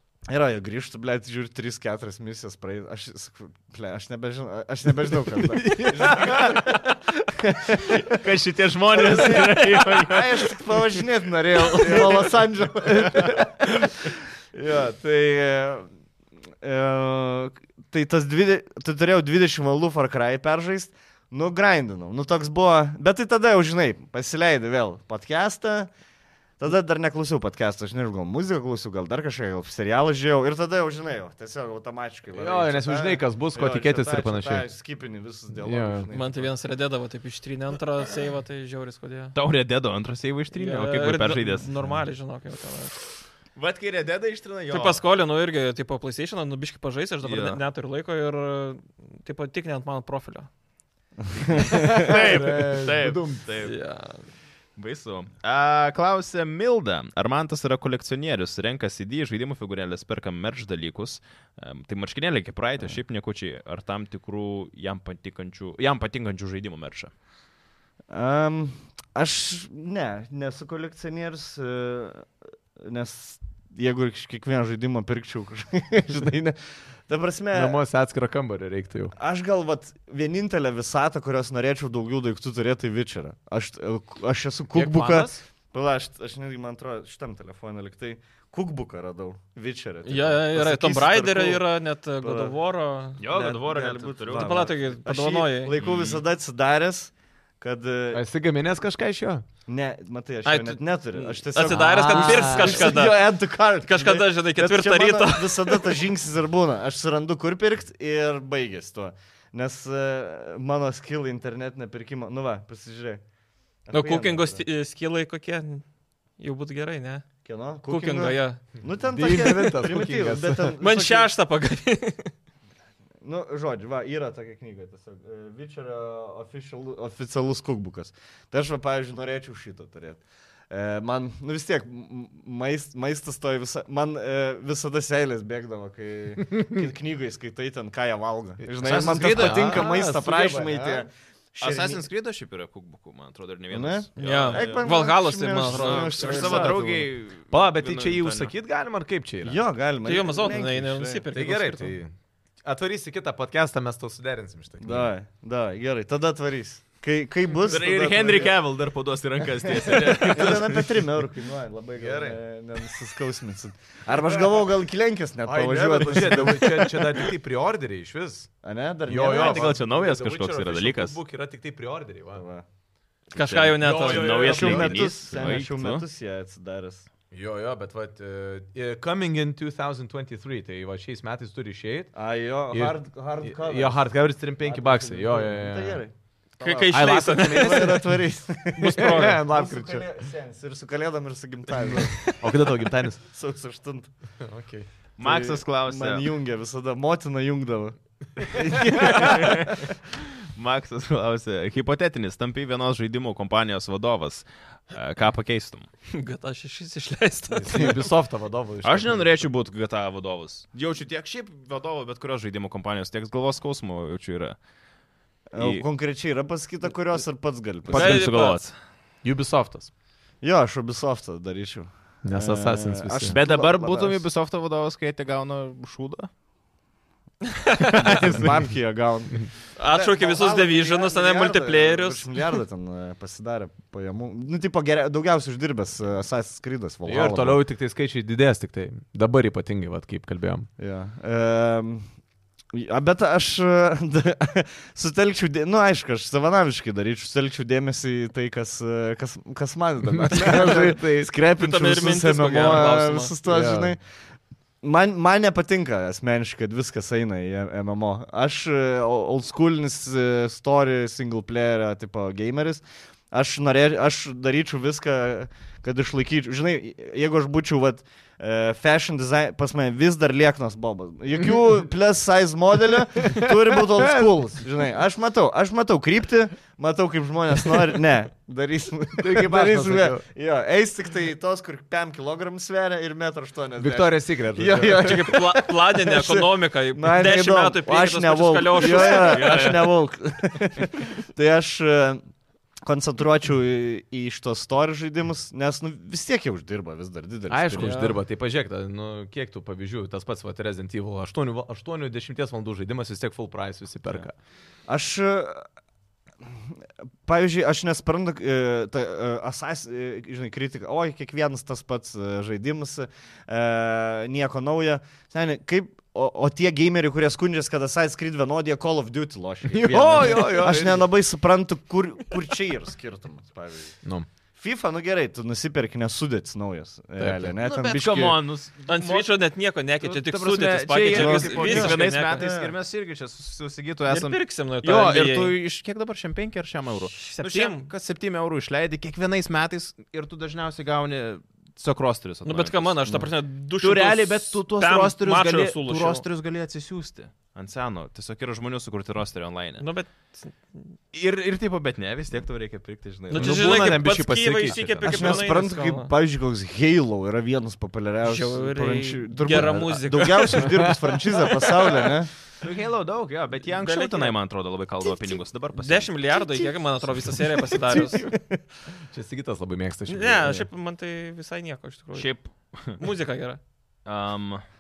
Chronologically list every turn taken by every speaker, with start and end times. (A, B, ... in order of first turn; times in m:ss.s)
0:00.3-0:08.2 A
0:05.4-0:06.6 B
0:07.8-0:10.5 C
0:08.9-0:15.9 A
0:11.8-0:12.3 B
0:12.9-0:13.4 B
0:16.6-0:25.9 A
0:26.6-0:36.5 A
0:32.3-0:34.7 B
0:35.6-0:36.1 B
0:36.1-0:39.4 D
0:39.4-0:41.7 C
0:40.5-0:43.0 D
0:43.6-0:45.0 C
0:44.7-0:50.5 D
0:47.2-0:47.6 C
0:51.4-0:52.2 A
0:51.4-0:53.8 C
0:51.7-0:53.4 B
0:53.6-0:54.2 D
0:54.8-1:07.1 C
1:08.1-1:17.8 A
1:17.5-1:19.1 B
1:19.2-1:31.6 A
1:24.8-1:25.2 C
1:24.8-1:25.4 B
1:30.1-1:33.2 D
1:32.2-1:32.5 A
1:33.2-1:34.7 C
1:33.3-1:38.2 A
1:34.2-1:35.8 D
1:35.8-1:36.2 C
1:38.1-1:39.4 B
1:39.7-1:53.2 A
1:40.4-1:46.0 D
1:41.7-1:43.0 B
1:53.9-1:54.6 A
1:53.9-1:55.8 D
1:56.4-1:57.3 D
1:57.4-2:01.3 A
1:57.9-1:58.6 D
1:59.1-2:00.8 B
2:00.8-2:02.3 D
2:03.2-2:22.0 A
2:18.6-2:21.1 B
2:18.8-2:19.9 C
2:21.6-2:24.9 C
2:23.7-2:27.1 A
2:24.2-2:26.7 D
2:25.5-2:28.5 C
2:27.5-2:29.6 B
2:29.4-2:31.2 A
2:30.0-2:32.0 D
2:31.3-2:35.1 B
2:34.8-2:38.5 A
2:37.6-2:40.9 C
2:39.6-2:47.3 A
2:42.0-2:42.4 B
2:45.5-2:48.5 B
2:48.6-2:49.8 A
2:49.1-2:52.4 B
2:49.2-2:51.2 C
2:52.4-2:52.6 A
2:53.3-2:54.7 D
2:53.5-2:56.0 C
2:53.6-2:55.5 B
2:54.4-2:57.1 A
2:57.3-3:02.1 B
3:02.1-3:14.1 A
3:02.7-3:06.0 B
3:06.6-3:08.1 D
3:06.9-3:08.2 B
3:08.8-3:09.4 D
3:08.8-3:10.1 B
3:11.8-3:13.2 B
3:14.4-3:14.9 B
3:15.2-3:16.3 C
3:15.2-3:19.9 A
3:18.6-3:19.4 B
3:19.0-3:19.9 C
3:20.4-3:25.9 C
3:26.1-3:28.1 D
3:27.5-3:29.4 B
3:28.8-3:34.6 C
3:35.5-3:38.3 A
3:35.6-3:35.9 C
3:37.9-3:38.7 C
3:37.9-3:38.7 D
3:39.2-3:39.9 B
3:40.4-3:44.2 A
3:42.2-3:43.4 B
3:43.3-3:46.3 C
3:47.7-3:48.3 D
3:48.0-3:57.6 A
3:49.8-3:52.6 D
3:57.1-4:00.7 B
4:00.8-4:02.1 A
4:02.7-4:14.0 A
4:10.1-4:11.2 B
4:11.6-4:13.3 D
4:13.5-4:13.9 B
4:14.8-4:52.2 A
4:33.2-4:34.3 B
4:39.2-4:40.2 B
4:43.8-4:45.2 B
4:44.9-4:49.7 D
4:48.8-4:49.4 B
4:49.2-4:49.9 C
4:52.8-4:58.0 A
4:57.5-5:04.4 B
4:57.7-4:58.2 D
5:04.9-5:05.7 A
5:06.4-5:24.0 A
5:19.7-5:21.1 B
5:24.6-5:28.4 A
5:27.2-5:27.6 B
5:27.6-5:29.4 C
5:28.9-5:32.5 D
5:30.0-5:43.0 C
5:31.1-5:32.8 A
5:34.1-5:35.6 D
5:37.1-5:37.9 D
5:42.4-5:46.2 D
5:43.8-5:49.8 C
5:49.8-5:50.9 D
5:51.1-5:54.0 C
5:53.3-5:56.1 D
5:53.3-5:55.5 B
5:55.0-6:02.3 A
5:58.2-6:00.9 D
5:59.6-5:59.8 B
6:00.5-6:01.2 B
6:02.6-6:06.1 C
6:03.7-6:04.4 D
6:05.7-6:08.2 D
6:06.4-6:08.6 A
6:07.8-6:08.3 B
6:09.1-6:10.6 B
6:10.1-6:13.6 D
6:12.2-6:13.0 C
6:14.0-6:14.6 C